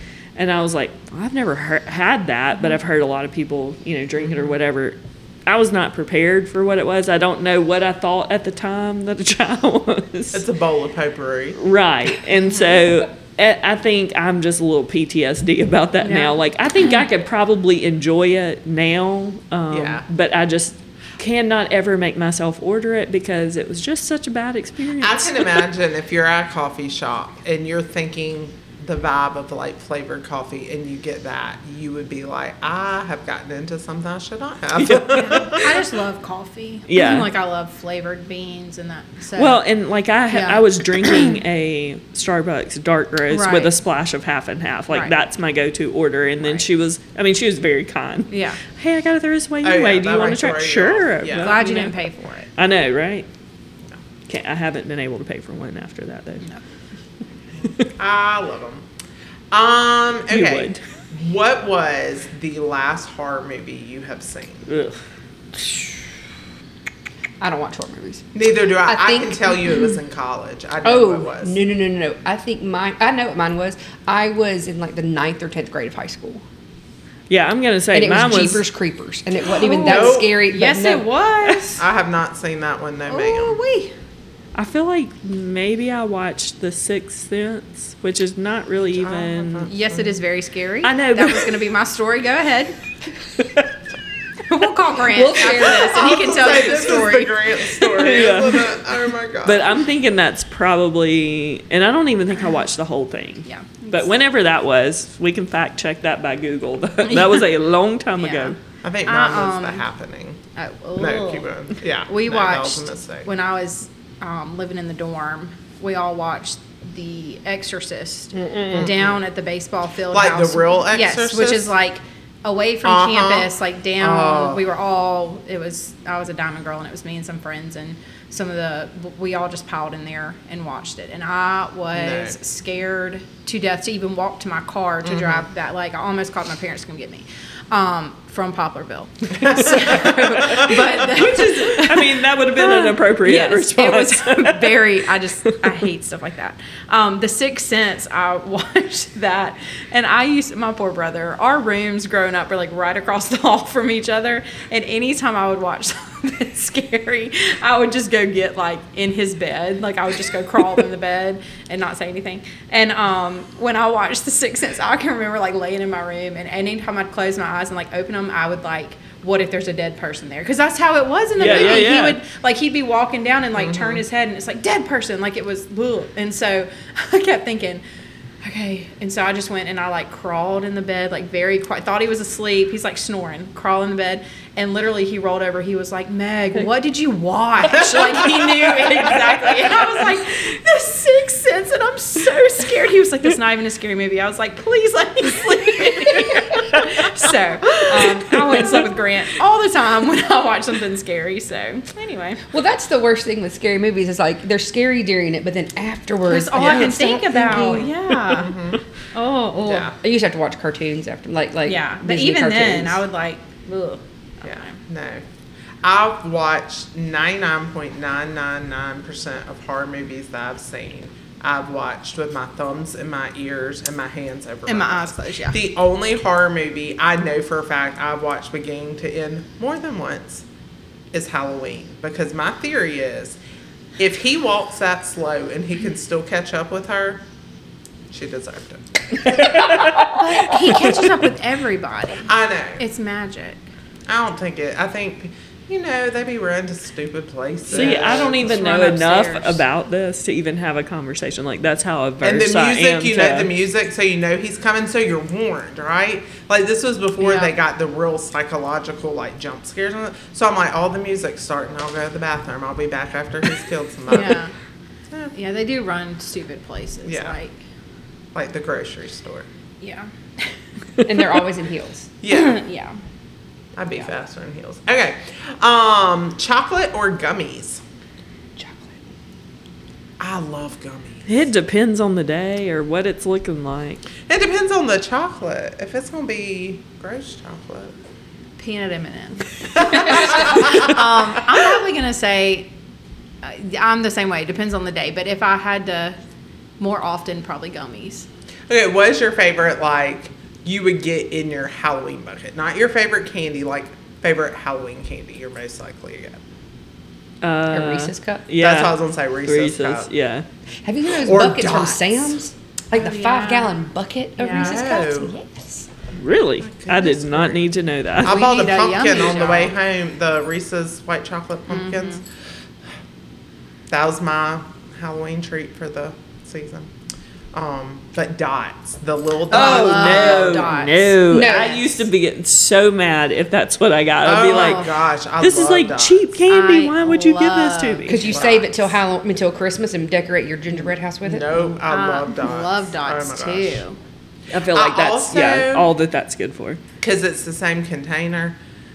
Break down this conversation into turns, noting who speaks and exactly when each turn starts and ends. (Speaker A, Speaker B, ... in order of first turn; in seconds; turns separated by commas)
Speaker A: 0.4-10.4, Speaker B: 4.2-4.5, Speaker B: 10.3-11.6, Speaker A: 11.6-25.7, Speaker C: 16.0-16.4, Speaker B: 19.7-20.1, Speaker B: 25.0-35.8, Speaker A: 34.8-35.6, Speaker C: 35.1-39.6, Speaker A: 36.9-37.3, Speaker A: 39.4-52.0, Speaker C: 40.3-41.3, Speaker C: 43.3-43.8, Speaker C: 44.9-45.2, Speaker C: 46.4-46.7, Speaker C: 48.3-48.6, Speaker B: 49.6-51.6, Speaker C: 51.4-52.5, Speaker A: 52.6-53.3, Speaker A: 54.3-56.4, Speaker B: 57.6-58.9, Speaker B: 59.5-64.7, Speaker A: 60.3-60.8, Speaker A: 64.7-65.0, Speaker D: 67.4-68.3, Speaker B: 68.3-71.6, Speaker D: 68.8-69.6, Speaker D: 70.8-76.4, Speaker A: 77.3-78.7, Speaker D: 77.9-81.1, Speaker C: 79.5-81.8, Speaker B: 79.8-80.4, Speaker B: 81.8-83.6, Speaker C: 83.1-83.9, Speaker A: 84.5-89.7, Speaker B: 88.9-90.0, Speaker C: 89.7-92.8, Speaker A: 90.8-91.5, Speaker C: 94.5-97.4, Speaker D: 95.1-96.3, Speaker B: 95.6-99.7, Speaker A: 97.8-98.8, Speaker A: 99.4-108.6, Speaker C: 103.5-104.2, Speaker C: 107.1-107.4, Speaker C: 108.2-108.5, Speaker B: 108.8-110.4, Speaker C: 109.1-109.8, Speaker C: 110.6-111.5, Speaker B: 111.0-113.3, Speaker C: 112.1-177.8, Speaker B: 118.6-119.2, Speaker B: 120.1-121.7, Speaker B: 122.8-124.6, Speaker B: 131.9-132.4, Speaker B: 135.0-135.4, Speaker B: 139.4-140.9, Speaker A: 141.0-145.0, Speaker A: 171.4-172.2, Speaker B: 173.6-174.0, Speaker C: 178.4-202.4, Speaker D: 197.9-198.8, Speaker D: 202.5-208.0, Speaker C: 206.3-208.5, Speaker B: 208.3-208.8, Speaker C: 209.1-209.9, Speaker B: 209.6-209.9, Speaker D: 209.9-213.0, Speaker C: 211.7-214.8, Speaker B: 214.4-215.2, Speaker B: 215.8-230.5, Speaker C: 224.7-225.6, Speaker B: 231.1-233.4, Speaker B: 234.0-237.2, Speaker B: 238.1-239.7, Speaker A: 239.4-240.0, Speaker C: 240.1-243.6, Speaker B: 242.3-242.8, Speaker B: 244.1-248.8, Speaker A: 247.7-253.5, Speaker C: 247.7-249.6, Speaker B: 252.2-264.4, Speaker C: 257.2-257.5, Speaker C: 264.1-264.5, Speaker C: 265.3-267.6, Speaker B: 267.0-267.4, Speaker B: 268.3-269.5, Speaker C: 269.8-270.5, Speaker D: 271.0-272.1, Speaker B: 272.2-272.6, Speaker C: 272.3-273.0, Speaker B: 273.8-277.8, Speaker D: 278.6-279.0, Speaker B: 280.2-281.3, Speaker A: 281.3-284.0, Speaker B: 284.3-287.9, Speaker C: 288.6-292.7, Speaker B: 289.8-290.9, Speaker C: 293.4-296.2, Speaker C: 296.8-298.3, Speaker B: 298.7-306.4, Speaker A: 307.4-310.5, Speaker D: 307.7-308.4, Speaker B: 308.6-310.1, Speaker D: 310.8-315.9, Speaker B: 311.1-312.4, Speaker C: 312.9-313.8, Speaker C: 314.4-314.9, Speaker B: 314.5-315.3, Speaker A: 316.1-318.4, Speaker B: 316.6-317.6, Speaker B: 318.2-322.2, Speaker C: 318.2-319.8, Speaker C: 321.7-322.2, Speaker B: 323.9-326.9, Speaker B: 327.5-330.8, Speaker C: 329.5-332.0, Speaker A: 329.5-338.3, Speaker D: 331.3-331.8, Speaker B: 334.2-336.4, Speaker C: 334.5-334.9, Speaker C: 336.5-338.4, Speaker D: 338.1-341.7, Speaker B: 338.2-338.9, Speaker B: 340.8-343.8, Speaker C: 341.9-344.0, Speaker A: 344.5-346.8, Speaker B: 344.7-345.9, Speaker B: 347.0-348.6